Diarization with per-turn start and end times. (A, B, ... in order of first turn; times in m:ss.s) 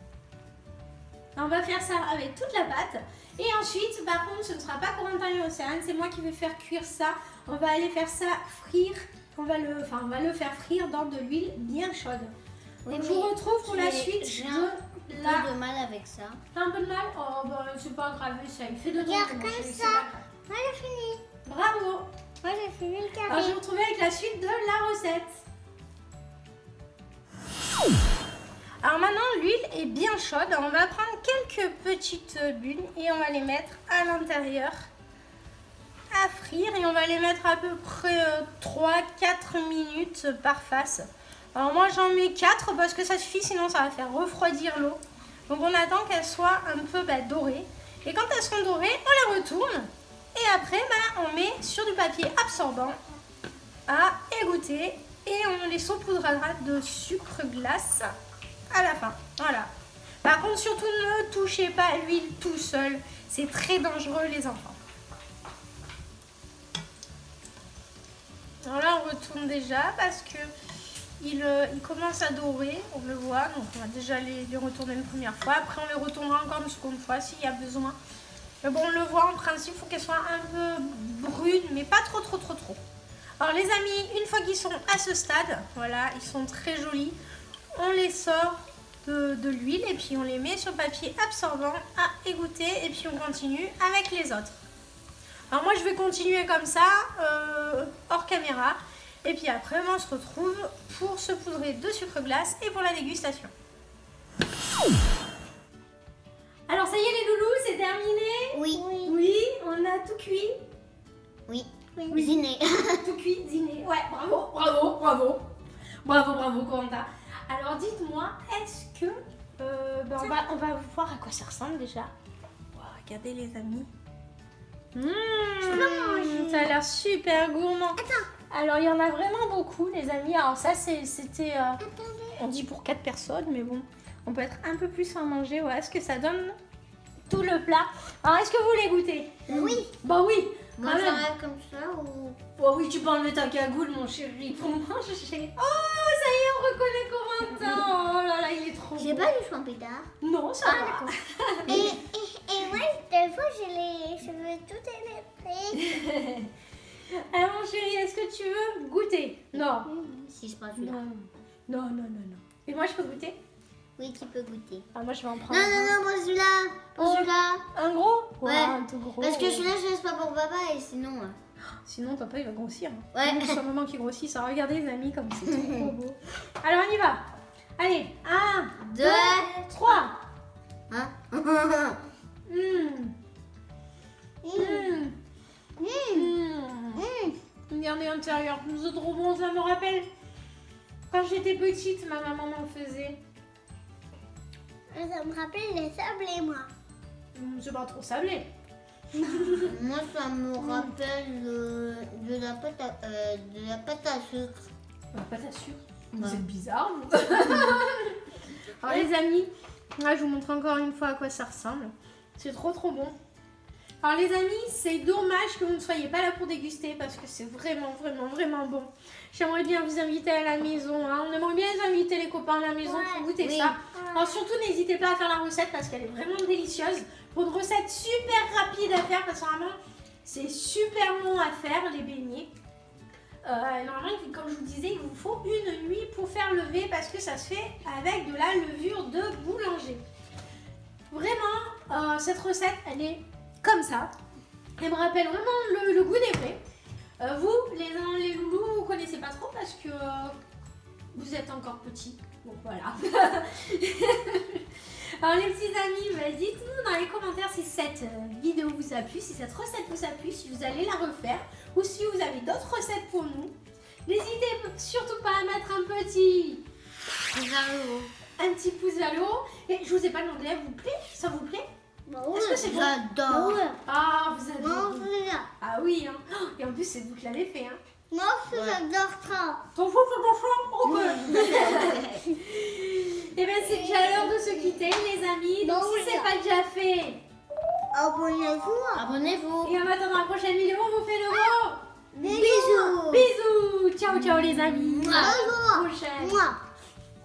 0:01.4-0:12.3 A
0:12.8-0:16.4 B
0:12.9-0:15.5 A
0:16.5-0:20.3 A
0:19.0-0:21.2 C
0:21.4-0:22.1 A
0:22.4-0:23.6 C
0:23.3-0:25.4 A
0:28.8-0:34.9 A
0:36.1-0:53.0 A
0:53.9-0:58.1 A
0:58.7-0:59.7 A
1:00.2-1:04.8 A
1:08.6-1:10.5 A
1:11.2-1:18.0 A
1:18.6-1:22.8 A
1:23.4-1:27.2 A
1:27.7-1:34.6 A
1:35.5-1:43.5 A
1:46.7-1:50.6 A
1:48.5-1:48.8 B
1:48.7-1:49.1 C
1:51.5-1:53.0 B
1:52.0-1:52.3 C
1:52.1-1:52.4 A
1:52.9-1:55.4 A
1:56.0-2:02.1 A
2:00.2-2:00.5 C
2:02.7-2:03.9 A
2:04.9-2:11.8 A
2:05.6-2:06.7 C
2:08.0-2:08.3 C
2:11.8-2:12.4 C
2:12.4-2:16.6 A
2:17.2-2:19.4 A
2:19.5-2:19.8 B
2:19.5-2:19.9 C
2:20.0-2:21.2 A
2:20.8-2:22.4 B
2:22.6-2:29.3 A
2:29.0-2:30.1 B
2:30.2-2:31.9 A
2:30.6-2:31.1 C
2:31.7-2:32.0 B
2:31.7-2:36.0 C
2:36.0-2:36.4 A
2:37.1-2:39.9 A
2:39.9-2:40.2 C
2:40.2-2:41.0 B
2:40.8-2:43.4 A
2:44.0-2:44.9 B
2:44.9-2:46.0 A
2:45.5-2:47.6 B
2:47.0-2:49.7 A
2:48.4-2:51.4 B
2:51.8-2:57.2 A
2:53.1-2:53.6 B
2:55.4-2:55.9 B
2:57.8-3:00.1 A
2:58.8-2:59.5 B
2:59.8-3:00.0 C
3:00.9-3:02.0 B
3:02.5-3:03.1 A
3:04.4-3:05.0 C
3:04.5-3:05.1 A
3:05.8-3:06.3 C
3:06.1-3:07.1 A
3:07.0-3:07.3 C
3:07.7-3:10.1 A
3:11.1-3:13.2 A
3:14.9-3:16.7 C
3:17.3-3:18.5 A
3:19.2-3:19.7 A
3:19.5-3:24.7 B
3:20.6-3:20.9 A
3:25.1-3:28.2 A
3:26.1-3:26.4 B
3:28.8-3:33.2 A
3:34.0-3:52.5 A
3:42.8-3:43.3 C
3:43.4-3:43.8 B
3:43.9-3:44.4 C
3:53.4-4:00.0 A
4:01.1-4:04.1 A
4:04.8-4:06.6 A
4:07.2-4:10.3 A
4:11.1-4:23.5 A
4:24.0-4:26.6 A
4:27.3-4:28.1 B
4:28.4-4:31.6 A
4:32.1-4:32.7 C
4:32.3-4:32.9 A
4:32.6-4:33.6 B
4:33.3-4:33.8 C
4:33.8-4:35.1 A
4:34.6-4:35.5 C
4:35.6-4:37.8 A
4:38.1-4:39.6 C
4:38.5-4:38.8 B
4:39.7-4:47.2 A
4:40.9-4:42.2 B
4:45.6-4:46.3 C
4:47.9-4:49.0 C
4:48.9-4:49.8 B
4:49.6-4:56.4 A
4:52.2-4:53.3 B
4:54.1-4:55.4 B
4:55.0-4:56.6 C